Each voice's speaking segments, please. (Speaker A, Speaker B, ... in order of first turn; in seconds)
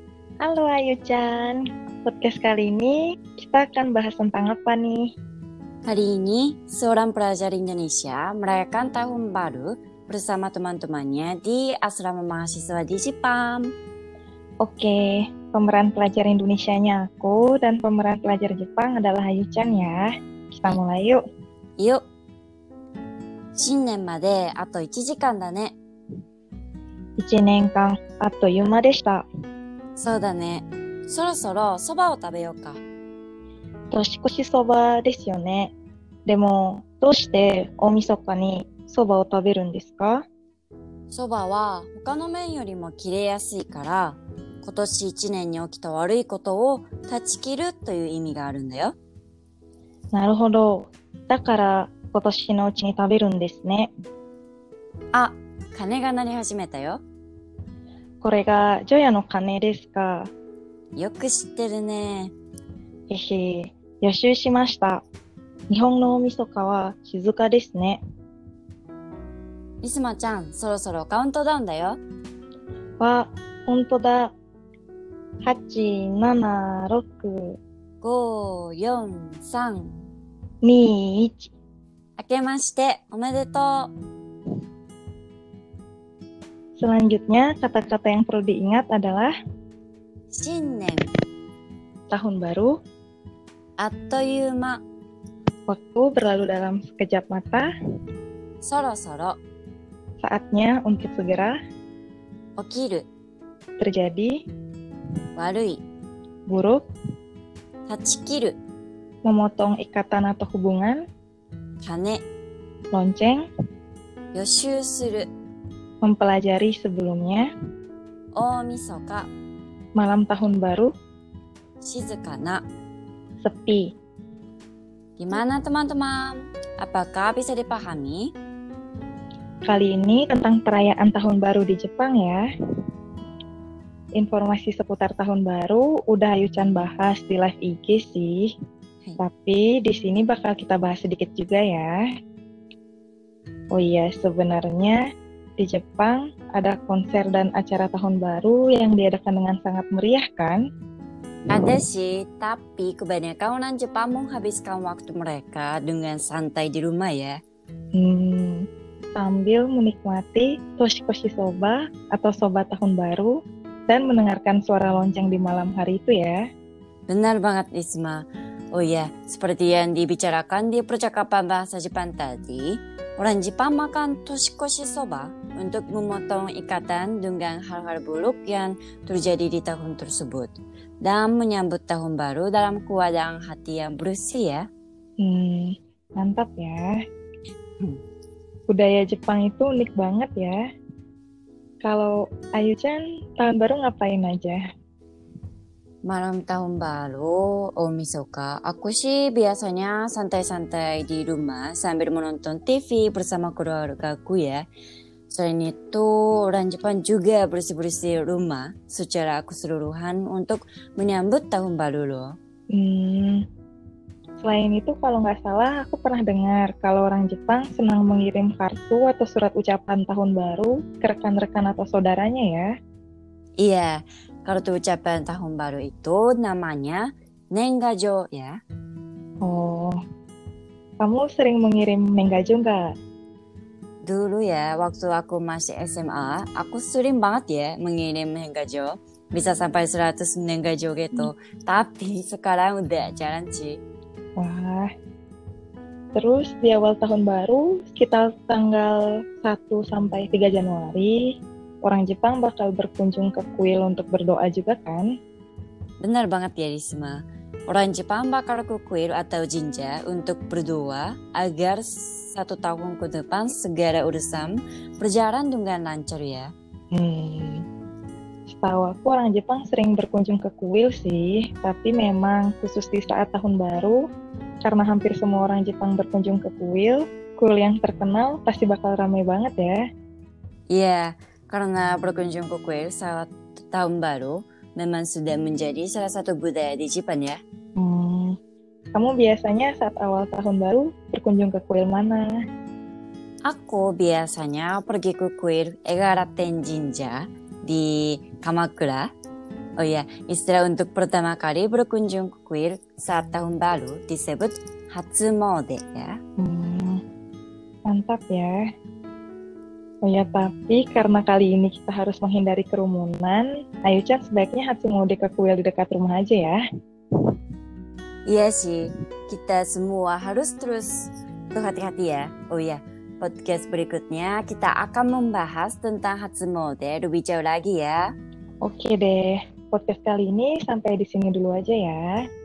Speaker A: 0.4-5.1, 14.6-21.2, 27.2-29.2, 33.9-35.7, 36.3-40.2, 50.1-53.9, 58.2-60.3, 63.1-65.0, 65.7-68.0, 73.0-74.3, 75.4-77.5, 80.6-81.5, 86.8-89.3, 92.1-92.7, 95.7-97.7, 100.2-101.5, 103.8-104.3, 106.5-106.8, 109.2-111.0, 112.9-113.4, 116.0-117.5, 120.0-120.9, 123.4-123.8, 129.7-132.4, 134.2-138.5, 139.2-141.9, 143.7-145.0, 145.6-150.6, 157.9-163.4, 163.9-166.4, 185.2-186.8, 188.7-190.6, 191.8-194.6, 212.7-213.4, 214.4-222.7, 229.4-230.0, 231.0-232.9, 244.4-244.9, 246.1-251.3, 251.8-255.0, 266.9-267.6, 268.5-274.0, 274.6-279.8, 287.8-288.4, 288.9-292.3, 306.4-307.0, 307.9-308.5, 310.0-316.6, 328.6-332.2
Speaker B: 5.8-13.7, 23.6-25.8, 30.0-32.8, 41.1-48.9, 55.1-57.0, 61.0-62.3, 69.8-72.0, 78.0-79.9, 82.2-83.9, 90.3-91.1, 93.8-94.8, 98.6-99.4, 102.6-103.0, 105.3-105.8, 107.9-108.5, 111.8-112.2, 114.3-115.3, 118.3-119.3, 121.8-122.6, 125.2-128.3, 151.5-157.4, 167.1-184.7, 196.0-204.6, 205.3-212.3, 223.6-228.6, 234.0-243.8, 256.0-266.5, 280.7-287.4, 293.4-299.1, 299.8-306.1, 318.3-328.1